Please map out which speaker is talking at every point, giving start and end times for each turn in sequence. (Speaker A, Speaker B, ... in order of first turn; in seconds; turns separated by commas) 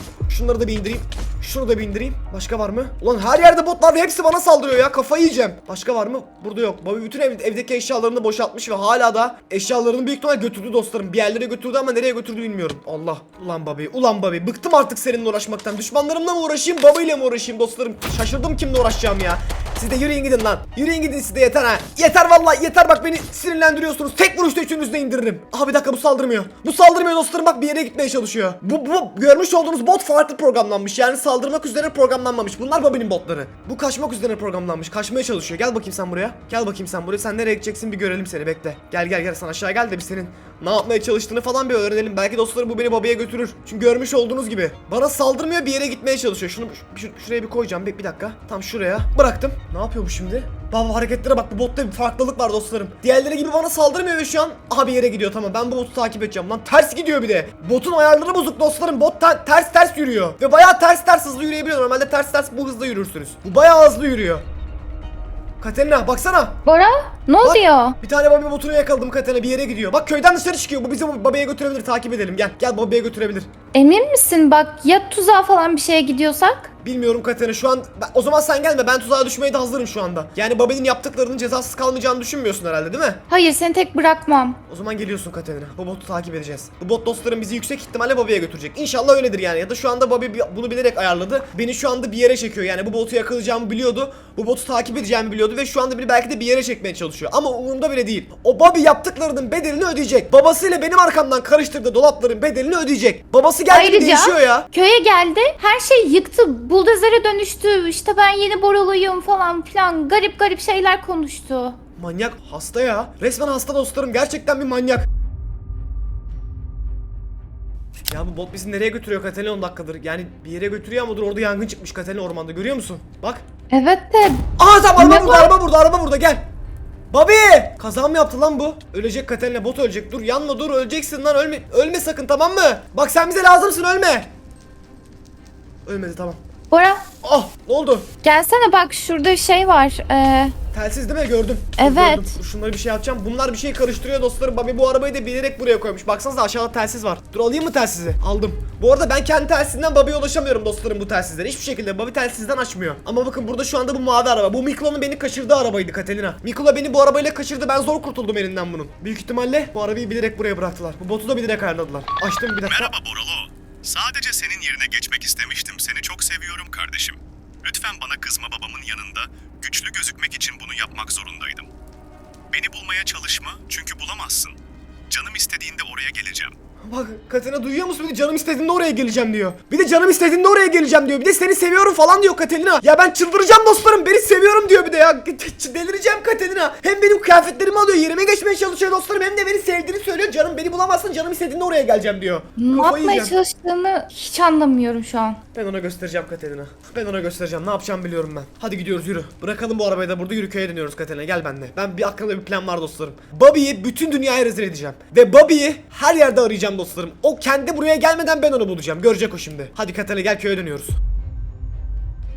Speaker A: 0.3-64.4, Speaker A: 65.6-66.6, Speaker B: 66.7-68.0, Speaker A: 67.4-73.5, Speaker B: 73.7-76.7, Speaker A: 76.8-83.2, Speaker B: 83.3-84.6, Speaker A: 84.7-104.7, Speaker B: 103.7-111.8, Speaker A: 112.0-115.1, Speaker A: 118.1-123.4, Speaker B: 123.7-124.4, Speaker A: 124.6-126.5, Speaker B: 125.0-125.5, Speaker A: 127.1-134.3, Speaker A: 135.8-136.4, Speaker B: 136.7-137.0, Speaker A: 137.2-138.1, Speaker B: 138.2-140.5, Speaker A: 140.7-162.9, Speaker B: 141.8-142.3, Speaker C: 162.6-171.7, Speaker C: 172.5-174.6, Speaker C: 175.1-176.5, Speaker A: 176.8-193.3, Speaker B: 192.6-195.4, Speaker A: 195.5-211.0